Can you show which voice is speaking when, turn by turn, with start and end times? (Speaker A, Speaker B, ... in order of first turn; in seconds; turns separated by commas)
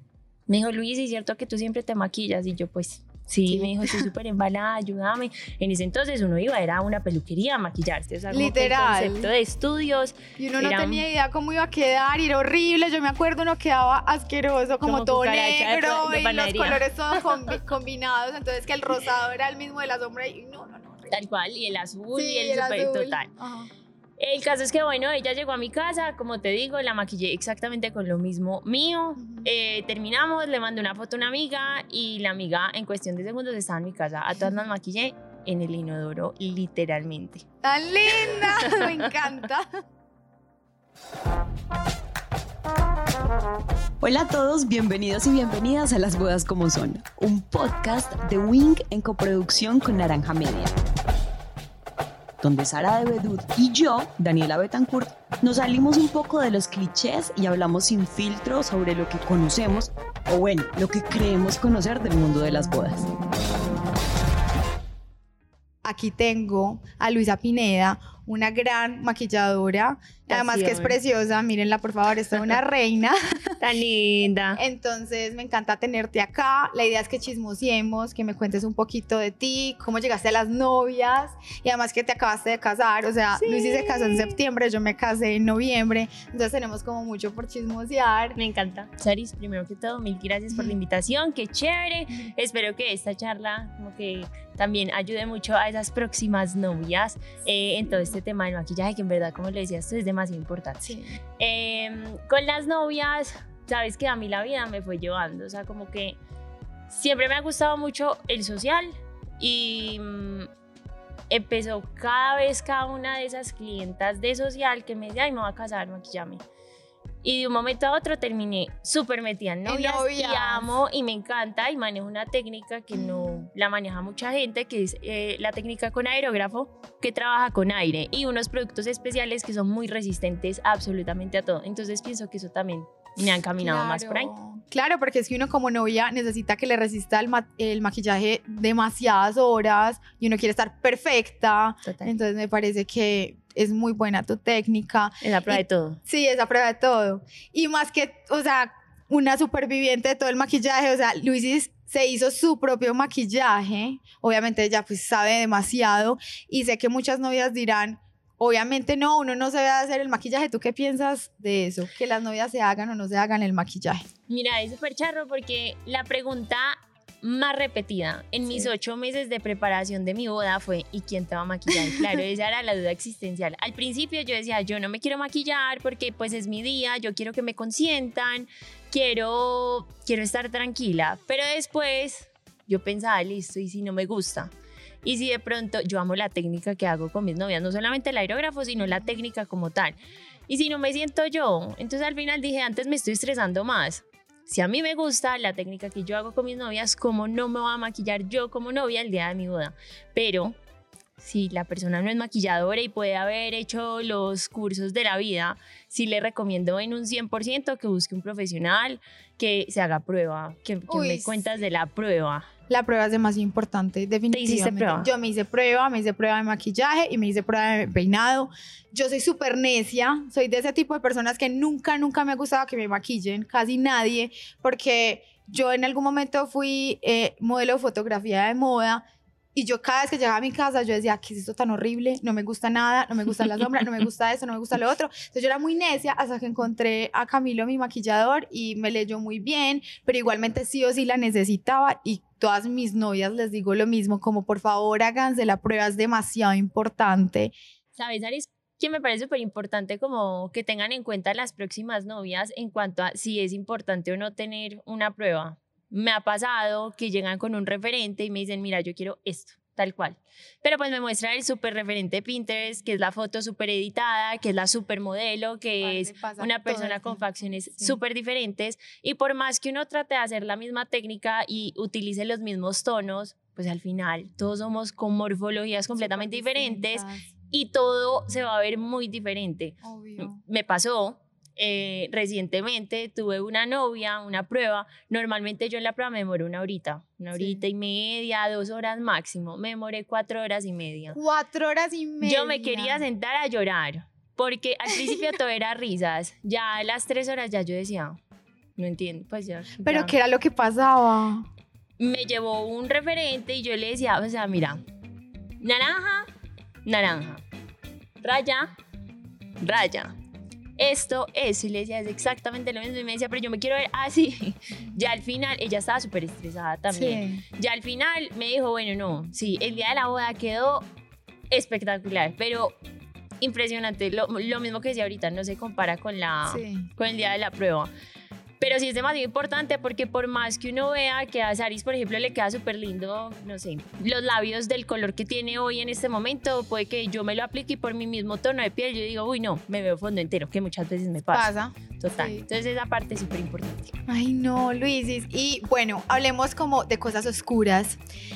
Speaker A: 0.5-11.0, Speaker B: 3.5-4.1, Speaker B: 8.3-9.3, Speaker B: 10.4-21.2, Speaker A: 14.8-17.4, Speaker A: 21.1-23.3, Speaker B: 22.1-23.7, Speaker A: 24.2-37.5, Speaker B: 29.2-29.5, Speaker B: 37.6-39.7, Speaker A: 38.2-39.1, Speaker C: 44.0-50.7, Speaker C: 52.4-63.1, Speaker B: 65.8-73.6, Speaker A: 70.3-71.0, Speaker A: 73.6-74.6, Speaker B: 74.5-88.4, Speaker A: 83.4-84.4, Speaker A: 88.4-106.2, Speaker B: 97.8-98.2, Speaker B: 100.8-101.2, Speaker A: 106.9-110.5, Speaker A: 111.3-116.4, Speaker A: 117.2-134.3, Speaker B: 119.6-120.8, Speaker B: 122.9-123.5, Speaker B: 133.6-164.0, Speaker A: 141.8-142.1, Speaker A: 145.2-146.0, Speaker A: 164.3-184.5, Speaker A: 185.0-200.6, Speaker B: 188.8-189.2, Speaker A: 201.2-212.5, Speaker B: 210.9-211.6, Speaker B: 212.7-229.0, Speaker A: 214.3-215.1, Speaker B: 229.5-247.5, Speaker A: 247.9-291.2, Speaker B: 265.8-268.0, Speaker B: 275.9-277.3, Speaker B: 279.8-280.4, Speaker B: 287.3-287.6, Speaker B: 291.1-293.1, Speaker A: 292.2-298.2, Speaker A: 298.8-300.1, Speaker B: 299.8-301.5, Speaker A: 302.0-304.8, Speaker A: 305.6-306.3, Speaker A: 306.8-307.4, Speaker A: 308.2-308.7, Speaker A: 309.6-310.1, Speaker A: 310.8-320.8, Speaker B: 316.9-317.4, Speaker A: 321.5-322.8, Speaker A: 323.4-327.9, Speaker B: 326.5-326.9, Speaker A: 328.6-343.9, Speaker B: 341.3-342.4, Speaker B: 344.1-348.0